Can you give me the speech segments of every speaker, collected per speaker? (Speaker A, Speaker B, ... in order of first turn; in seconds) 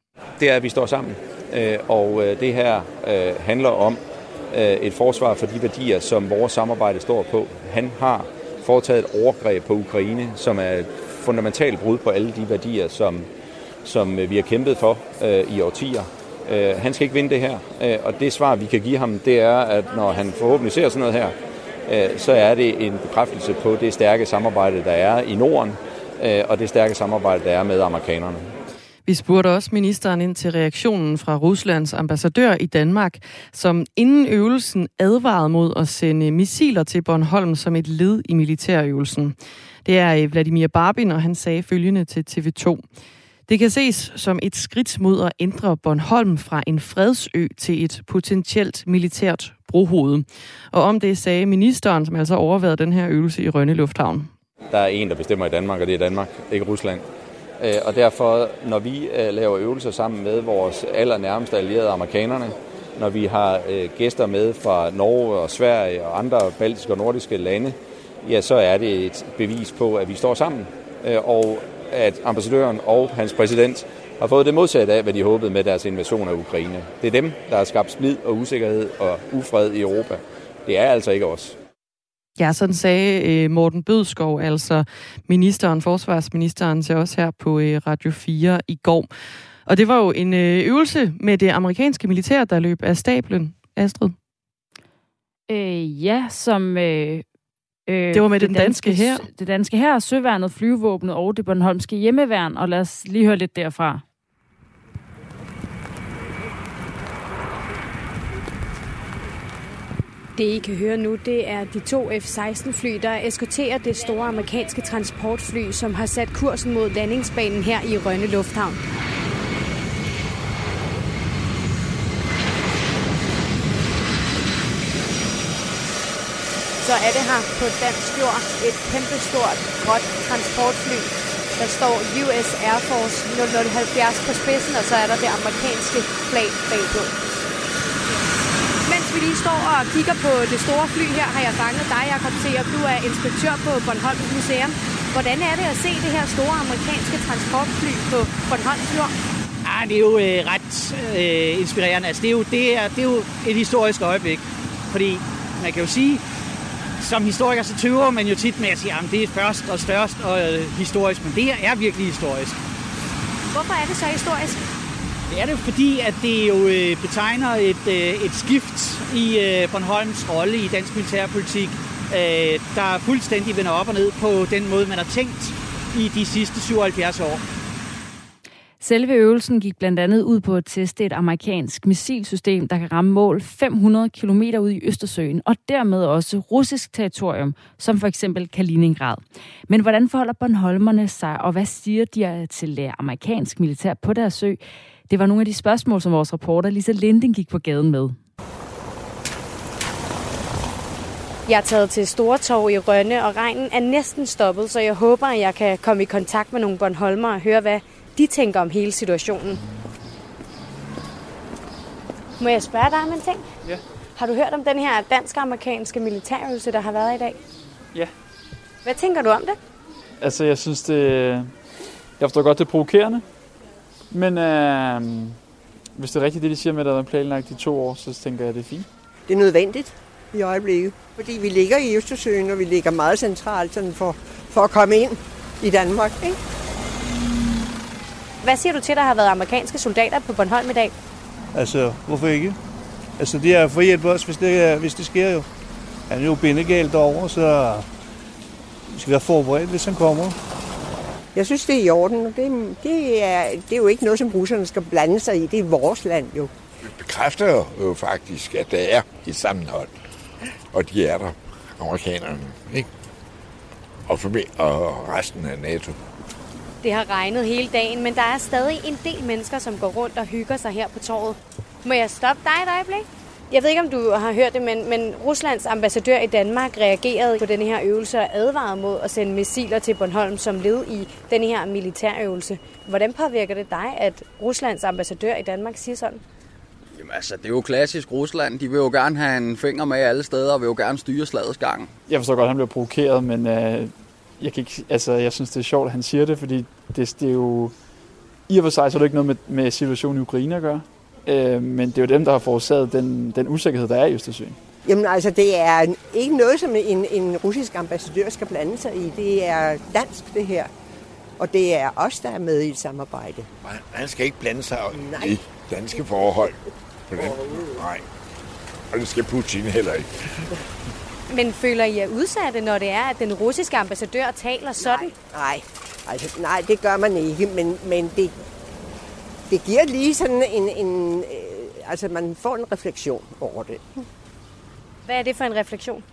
Speaker A: 0.4-13.3, 13.8-28.5, 54.7-57.0, 57.6-81.5
Speaker B: 29.1-42.8, 43.5-54.3, 82.4-89.1, 89.7-94.1, 98.1-99.2
Speaker C: 95.5-97.2, 97.9-104.0, 178.8-198.2
Speaker D: 110.3-118.8, 126.8-137.3, 138.8-149.1, 163.5-164.6, 201.4-209.6, 212.4-213.5, 214.2-217.4, 218.8-219.6, 238.4-240.9, 266.8-286.2, 321.3-325.1, 335.0-336.0
Speaker E: 149.6-156.2, 157.0-162.6, 165.3-177.4
Speaker F: 220.2-221.5, 222.2-223.2, 224.1-225.4, 225.9-228.9, 292.1-297.7, 298.5-304.6
Speaker G: 229.3-236.4, 251.3-256.5, 304.8-310.7, 311.4-313.5, 314.9-315.4, 324.8-328.4, 329.5-334.0
Speaker H: 241.5-242.6, 243.2-245.5, 246.1-247.9, 248.9-250.4
Speaker I: 256.8-259.9, 260.7-262.9, 264.1-266.0, 313.6-318.0, 318.9-320.5
Speaker J: 286.9-291.9